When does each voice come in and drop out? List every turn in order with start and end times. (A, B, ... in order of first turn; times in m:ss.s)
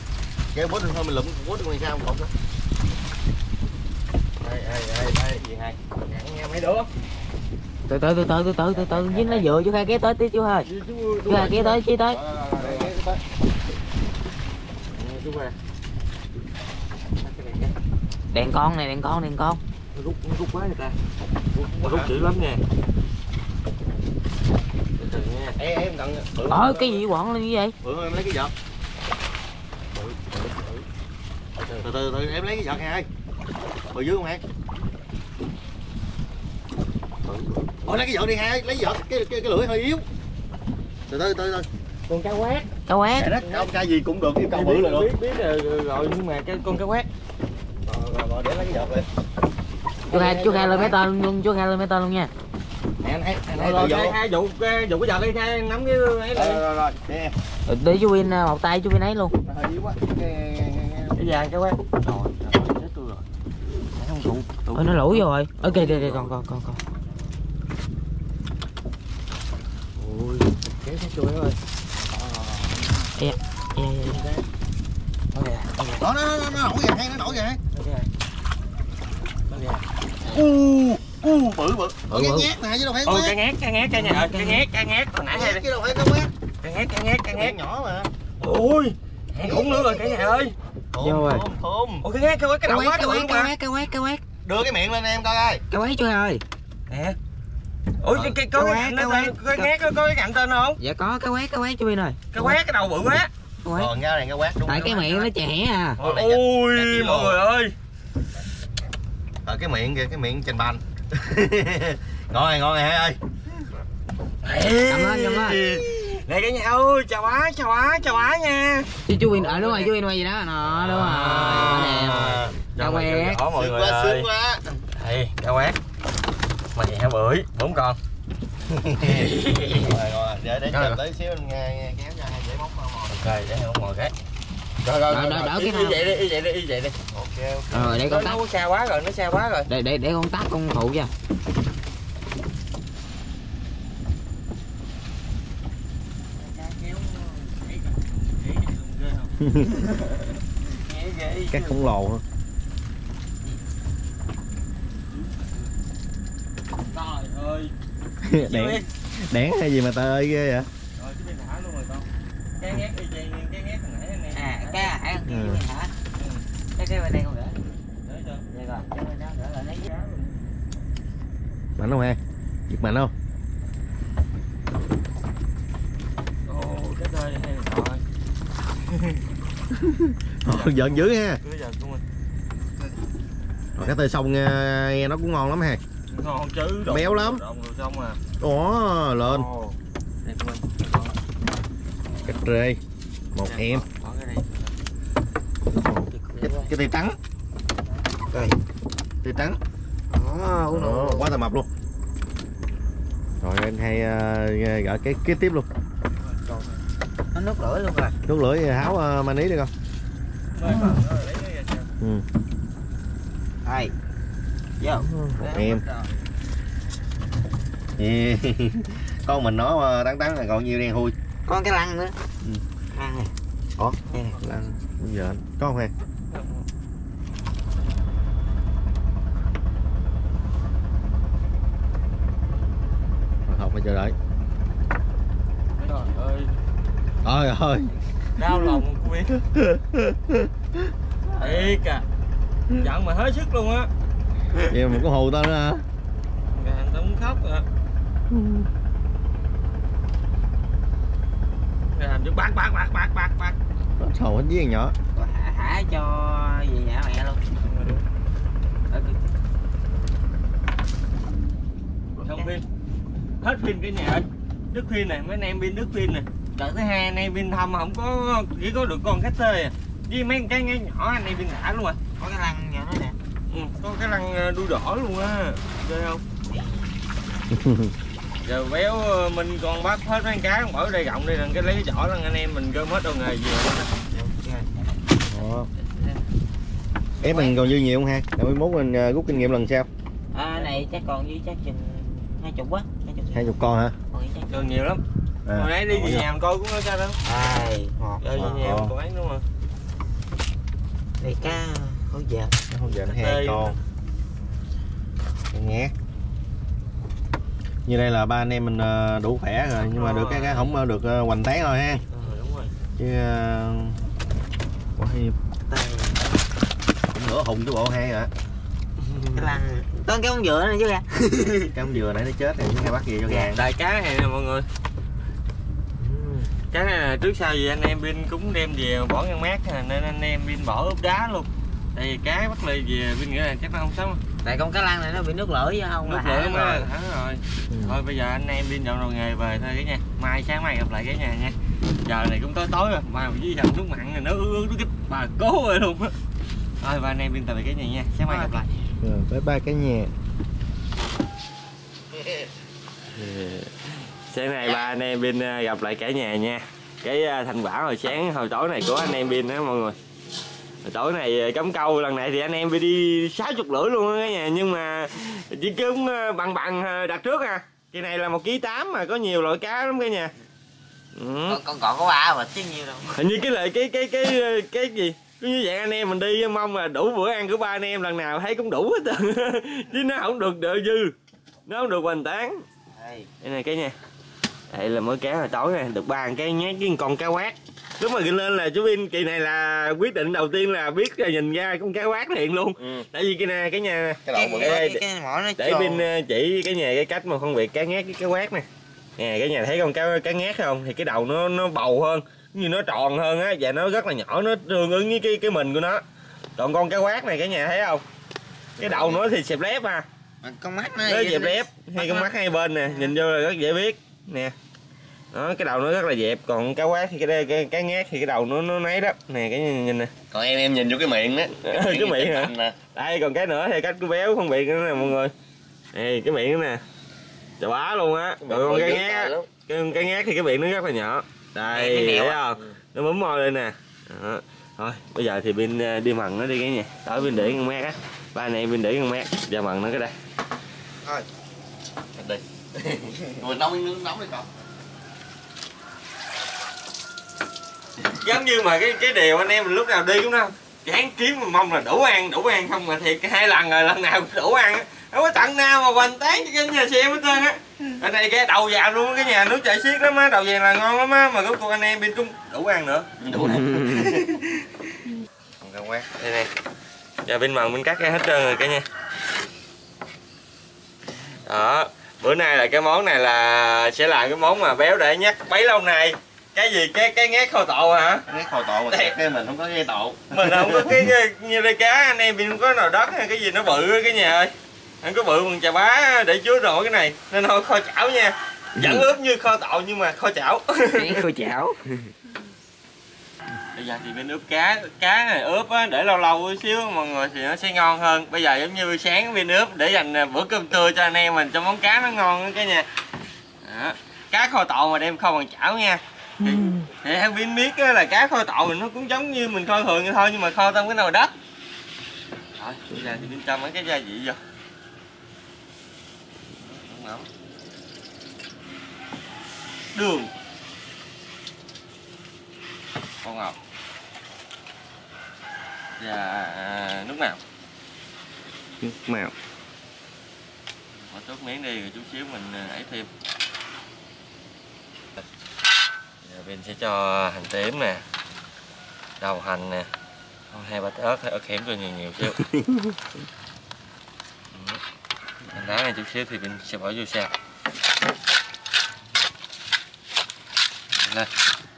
0:00.5-0:02.3 A
0:04.4-0:06.9 B
0:07.9-0:10.7 C
0:08.7-0:09.4 A
0:10.6-0:12.9 B
0:11.3-0:12.2 C
0:12.4-0:13.2 A
0:14.9-0:15.6 B
0:17.2-0:17.7 B
0:18.3-0:19.6 C
0:19.9-0:21.0 B
0:21.5-0:22.1 A
0:21.6-0:22.6 B
0:25.0-0:25.6 B
0:25.6-0:27.0 A
0:26.5-0:27.7 C
0:27.8-0:28.5 A
0:29.9-0:30.8 B
0:31.6-0:31.8 B
0:31.8-0:33.1 A
0:33.9-0:34.4 A
0:37.7-0:40.0 A
0:41.1-0:41.7 A
0:42.1-0:42.7 B
0:42.9-0:43.3 C
0:43.2-0:45.1 A
0:43.4-0:43.7 B
0:44.5-0:47.1 B
0:47.8-0:49.1 A
0:50.1-0:51.0 A
0:50.1-0:52.3 C
0:53.0-0:54.2 A
0:53.5-0:56.6 B
0:56.3-0:57.4 A
0:57.7-0:59.4 C
0:59.4-1:01.3 A
1:01.1-1:03.2 B
1:03.9-1:06.3 B
1:04.7-1:06.8 C
1:10.0-1:11.6 B
1:12.7-1:13.0 B
1:13.2-1:14.2 C
1:15.3-1:16.0 B
1:16.0-1:17.6 A
1:17.7-1:18.1 B
1:19.5-1:21.6 B
1:20.2-1:20.5 A
1:21.5-1:23.4 A
1:22.1-1:22.5 C
1:23.0-1:25.6 B
1:24.0-1:24.6 C
1:25.3-1:26.3 A
1:26.6-1:27.6 B
1:27.3-1:28.1 A
1:28.4-1:30.5 B
1:29.4-1:30.4 A
1:30.9-1:32.0 A
1:31.0-1:31.4 C
1:32.0-1:33.5 B
1:32.6-1:34.2 C
1:34.4-1:35.6 A
1:35.7-1:36.4 C
1:36.9-1:37.2 B
1:38.0-1:40.8 B
1:38.1-1:38.4 A
1:38.5-1:39.7 C
1:40.8-1:42.6 C
1:42.3-1:43.3 B
1:43.6-1:43.9 C
1:43.7-1:44.9 A
1:44.6-1:46.0 C
1:44.7-1:45.3 B
1:46.0-1:47.4 A
1:46.0-1:47.7 B
1:49.4-1:53.2 A
1:54.4-1:59.9 B
1:54.9-1:55.6 C
1:59.1-2:03.4 C
2:00.6-2:04.3 B
2:01.4-2:02.5 A
2:03.5-2:04.7 A
2:04.9-2:05.8 B
2:06.7-2:08.0 B
2:08.7-2:13.2 A
2:09.0-2:09.9 B
2:13.1-2:14.1 B
2:14.8-2:17.0 B
2:15.1-2:16.0 C
2:17.1-2:18.0 A
2:17.7-2:18.4 C
2:18.0-2:19.7 B
2:19.7-2:21.1 C
2:26.4-2:29.3 B
2:29.4-2:29.7 A
2:30.7-2:31.8 B
2:31.5-2:32.2 A
2:35.1-2:35.7 B
2:36.9-2:37.7 B
2:38.2-2:40.7 A
2:38.4-2:38.9 B
2:41.0-2:44.9 B
2:44.3-2:45.9 C
2:45.3-2:45.6 A
2:46.1-2:46.4 B
2:46.8-2:47.6 C
2:48.0-2:48.5 B
2:48.5-2:49.9 C
2:49.8-2:50.4 B
2:51.8-2:53.1 A
2:56.4-2:58.0 B
2:58.9-2:59.2 B
2:59.7-3:01.4 A
3:00.4-3:02.0 B
3:03.8-3:05.8 A
3:06.1-3:08.2 B
3:06.8-3:07.4 A
3:08.4-3:09.5 A
3:09.2-3:11.1 B
3:12.2-3:12.8 A
3:13.3-3:13.8 A
3:13.4-3:14.7 B
3:16.3-3:16.6 C
3:16.4-3:17.2 A
3:18.3-3:18.6 C
3:19.2-3:19.6 A
3:20.1-3:21.3 C
3:20.7-3:21.7 A
3:23.4-3:25.7 A
3:26.2-3:26.8 B
3:27.3-3:28.1 C
3:28.3-3:29.7 A
3:30.5-3:31.9 B
3:33.6-3:33.9 C
3:34.8-3:35.8 C
3:35.0-3:35.8 A
3:35.4-3:36.0 B
3:38.0-3:41.1 A
3:41.4-3:42.2 C
3:42.9-3:43.3 C
3:43.8-3:45.9 A
3:46.3-3:46.6 B
3:53.4-3:54.1 A
3:55.8-3:56.6 B
3:57.2-3:57.9 A
3:58.4-3:59.4 B
3:59.5-4:00.9 A
4:01.4-4:02.0 B
4:02.7-4:03.9 B
4:04.7-4:05.8 A
4:06.5-4:07.6 B
4:08.3-4:08.6 A
4:11.9-4:13.6 B
4:14.0-4:15.0 A
4:15.1-4:17.4 C
4:17.6-4:18.0 B
4:18.9-4:19.1 C
4:22.2-4:22.5 C
4:22.2-4:22.6 B
4:23.4-4:32.0 B
4:32.2-4:33.2 C
4:33.5-4:36.2 B
4:36.5-4:36.9 C
4:37.5-4:37.9 A
4:38.4-4:43.9 B
4:44.1-4:45.0 C
4:45.2-4:45.7 A
4:45.7-4:46.2 B
4:47.2-4:49.9 A
4:47.2-4:47.5 C
4:50.3-4:53.5 C
4:53.3-4:54.0 A
4:54.1-4:54.7 C
4:54.5-4:55.0 B
4:55.4-4:56.2 A
4:55.5-4:57.2 B
4:57.2-4:58.2 C
4:58.2-4:59.4 B
4:58.4-4:58.9 A
5:01.2-5:02.6 C
5:02.7-5:03.8 A
5:03.0-5:03.7 B
5:05.5-5:05.9 A
5:07.8-5:12.0 A
5:09.8-5:10.7 B
5:12.1-5:12.7 B
5:13.0-5:14.0 A
5:15.0-5:15.4 A
5:15.7-5:16.2 C
5:17.1-5:18.3 A
5:19.0-5:19.5 B
5:19.3-5:21.7 C
5:21.7-5:23.6 A
5:23.5-5:24.7 B
5:26.0-5:26.5 A
5:26.7-5:34.2 B
5:34.4-5:36.9 C
5:36.0-5:46.2 B
5:37.7-5:38.0 A
5:46.8-5:48.7 B
5:48.3-5:48.7 C
5:49.0-5:50.1 A
5:52.2-5:52.4 A
5:53.1-6:00.0 B
6:00.8-6:10.3 B
6:11.1-6:11.6 B
6:11.5-6:13.1 C
6:13.1-6:21.1 B
6:21.7-6:22.6 B
6:23.0-6:23.3 C
6:23.4-6:24.0 B
6:24.7-6:35.0 B
6:32.8-6:33.0 A
6:34.2-6:34.8 A
6:34.3-6:36.1 C
6:35.6-6:38.6 B
6:39.2-6:46.0 B
6:46.6-6:48.0 B
6:48.8-6:49.3 A
6:48.8-6:50.0 B
6:50.4-6:52.3 C
6:51.0-6:54.5 B
6:55.3-7:00.1 B
7:00.3-7:02.8 A
7:01.6-7:05.3 B
7:05.9-7:06.8 B
7:07.6-7:20.1 B
7:08.4-7:09.5 A
7:11.7-7:12.4 C
7:22.1-7:24.5 A
7:28.1-7:43.1 B
7:43.2-7:44.4 A
7:43.6-7:43.9 C
7:45.6-7:46.1 A
7:46.1-7:46.5 B
7:47.2-7:48.8 B
7:51.4-7:58.2 B
7:58.3-8:01.0 A
8:00.3-8:11.2 B
8:10.9-8:12.1 C
8:13.7-8:22.9 B
8:23.6-8:31.3 B
8:26.4-8:26.9 A
8:32.6-8:34.4 B
8:36.6-8:37.3 B
8:39.9-8:40.3 B
8:43.2-8:43.6 B
8:46.0-8:47.4 B
8:48.8-8:49.3 A
8:51.0-8:53.1 B
8:56.2-8:58.0 B
8:59.2-8:59.9 B
9:00.5-9:02.4 B
9:02.4-9:02.7 A
9:04.5-9:04.8 B
9:05.5-9:07.3 B
9:11.0-9:11.3 B